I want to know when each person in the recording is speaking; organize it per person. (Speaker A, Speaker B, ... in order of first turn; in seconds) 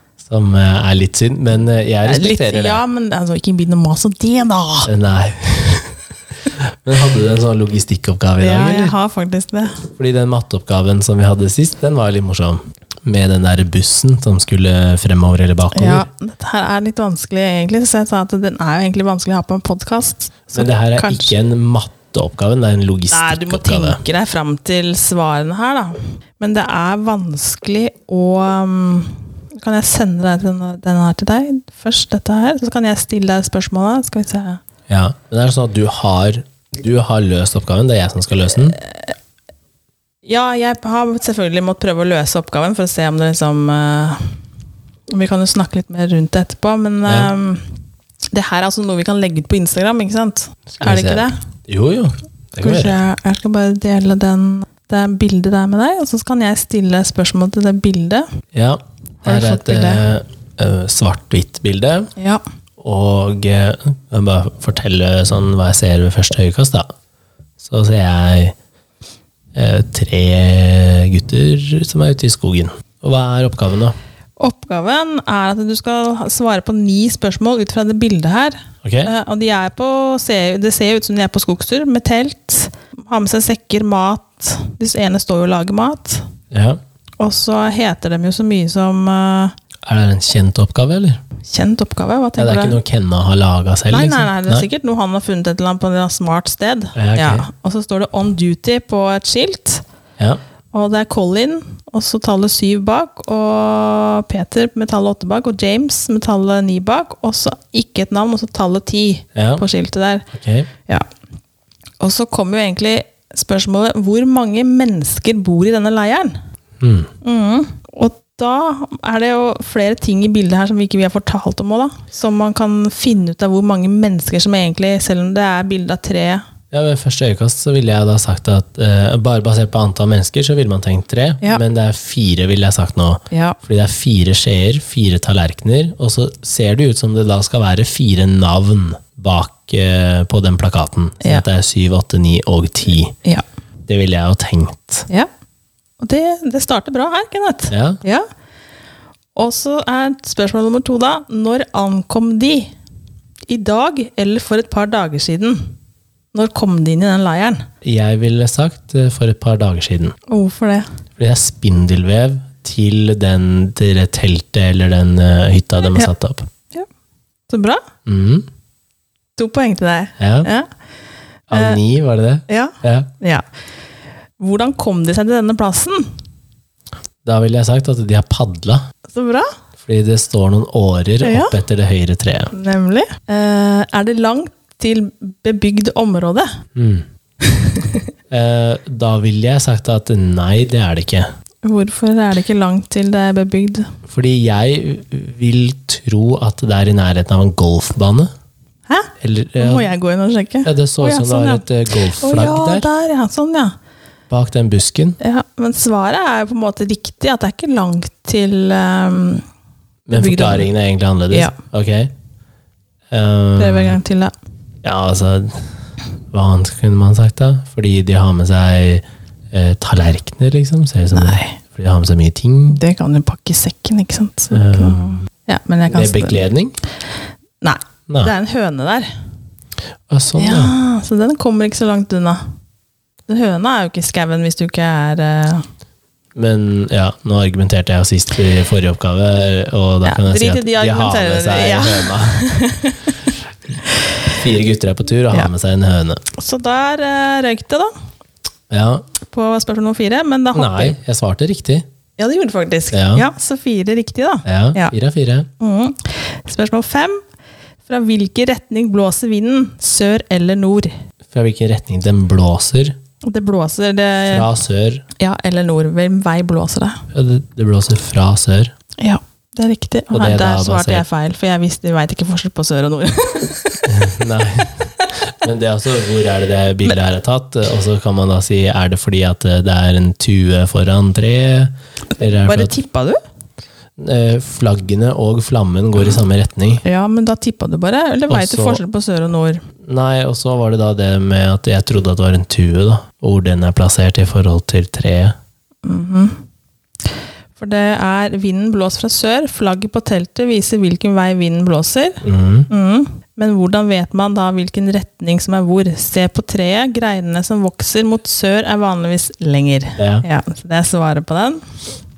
Speaker A: 0.2-2.8, 4.8-8.9, 10.0-16.1, 20.5-24.0, 34.9-38.8, 47.1-47.3, 50.8-53.0, 58.5-62.1, 62.8-66.9, 67.6-68.5, 69.5-73.9, 78.8-79.1, 86.5-86.8, 89.8-91.2, 92.4-94.7, 96.9-97.5, 109.3-109.6, 110.3-110.7, 116.8-117.1, 126.7-143.1, 143.9-145.1, 147.7-148.0, 157.8-160.2, 161.2-166.5, 168.1-168.4, 170.2-170.5, 171.5-173.1, 177.2-178.8, 179.8-182.5, 186.7-187.0, 188.3-191.3, 194.1-198.3, 199.2-199.9, 200.6-202.9, 204.3-205.2, 210.1-212.1, 213.1-214.0, 214.8-215.7, 216.3-222.8, 224.5-225.3, 225.9-226.8, 230.1-230.7, 236.3-242.4, 244.3-246.2, 248.7-249.0, 250.5-251.8, 252.9-253.2, 254.4-255.5, 261.3-262.9, 264.2-265.0, 267.1-268.7, 270.1-271.0, 273.8-282.7, 284.0-286.8, 288.3-288.8, 289.9-295.3, 302.2-302.7, 310.0-310.2
Speaker B: 2.0-4.9, 8.4-9.8, 15.7-21.3, 23.1-34.6, 40.2-44.3, 45.1-47.6, 48.3-51.4, 52.6-58.3, 59.2-60.0, 62.1-62.4, 74.4-86.3, 87.2-89.5, 91.5-92.8, 93.9-99.8, 100.7-110.3, 112.0-116.4, 117.2-126.4, 133.3-133.6, 146.0-148.2, 149.3-152.7, 153.5-155.7, 156.3-157.7, 160.3-160.9, 167.5-167.8, 169.4-170.7, 171.5-171.8, 172.5-173.4, 174.4-176.1, 179.1-179.5, 181.2-181.6, 182.5-186.6, 187.4-188.1, 191.6-193.9, 198.9-201.6, 202.1-203.7, 205.2-209.4, 210.1-210.7, 211.3-211.6, 213.6-214.3, 221.1-221.6, 222.7-226.4, 227.6-229.1, 230.4-232.4, 233.3-235.7, 240.0-243.3, 246.3-247.9, 249.2-251.0, 252.2-254.9, 255.6-257.2, 257.9-260.9, 263.2-264.5, 265.2-267.0, 269.0-274.1, 282.4-283.2, 286.8-289.6, 295.8-296.4, 297.6-311.7